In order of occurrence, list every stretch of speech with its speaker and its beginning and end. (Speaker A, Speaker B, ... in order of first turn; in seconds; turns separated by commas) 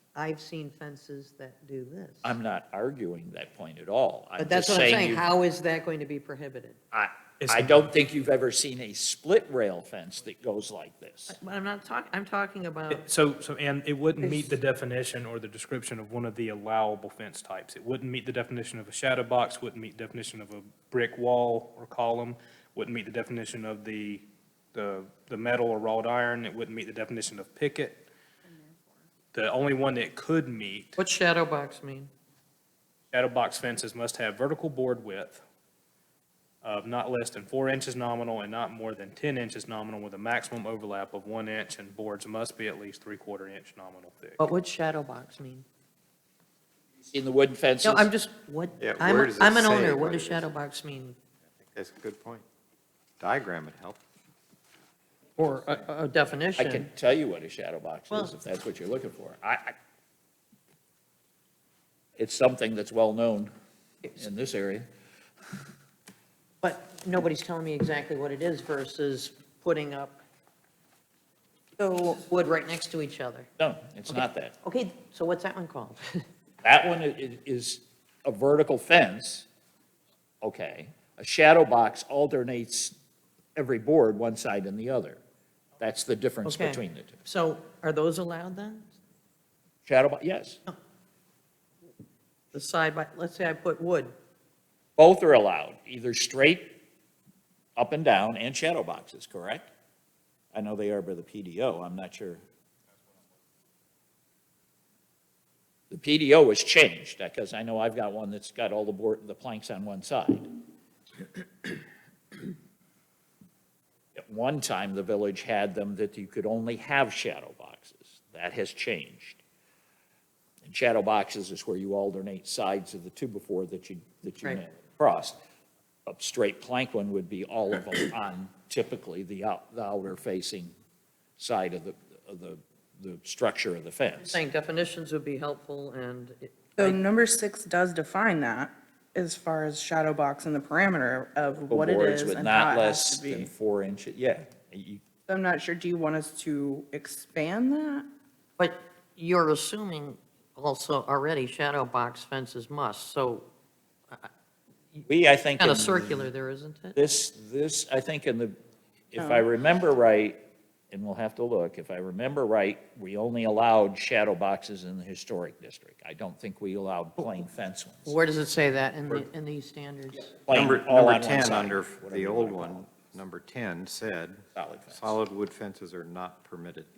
Speaker A: 0.1-2.4, Speaker B: 2.2-5.3, Speaker A: 4.4-6.8, Speaker B: 6.9-11.4, Speaker C: 7.4-7.9, Speaker A: 11.3-13.0, Speaker C: 12.9-28.1, Speaker D: 14.2-14.6, Speaker C: 29.3-31.0, Speaker A: 31.0-32.1, Speaker C: 33.1-35.4, Speaker C: 36.6-44.4, Speaker A: 44.4-45.6, Speaker B: 47.1-48.1, Speaker A: 47.8-51.2, Speaker E: 48.8-50.5, Speaker E: 51.7-52.5, Speaker E: 53.2-54.0, Speaker A: 55.4-56.9, Speaker B: 56.6-59.8, Speaker B: 62.2-63.5, Speaker B: 64.2-64.9, Speaker A: 66.6-70.2, Speaker D: 71.8-72.1, Speaker A: 71.9-73.5, Speaker B: 73.6-74.6, Speaker A: 74.6-76.2, Speaker B: 76.6-79.5, Speaker B: 80.4-83.0, Speaker B: 83.6-85.2, Speaker B: 85.8-87.2, Speaker A: 86.4-88.9, Speaker B: 89.8-90.6, Speaker A: 92.5-94.1, Speaker B: 95.0-96.8, Speaker B: 97.8-99.7, Speaker B: 100.5-102.4, Speaker B: 105.9-110.5, Speaker B: 114.2-119.4, Speaker B: 120.6-125.4, Speaker B: 126.1-130.7, Speaker B: 131.4-134.4, Speaker A: 134.2-137.0, Speaker D: 136.8-143.5, Speaker B: 141.7-145.0, Speaker D: 145.3-148.1, Speaker A: 148.6-153.5, Speaker B: 155.1-156.3, Speaker A: 155.6-157.0, Speaker B: 156.9-158.6, Speaker B: 159.1-160.4, Speaker D: 159.2-159.5, Speaker B: 160.9-168.2, Speaker A: 168.1-170.3, Speaker B: 170.3-172.9, Speaker E: 170.5-176.9, Speaker B: 174.6-175.2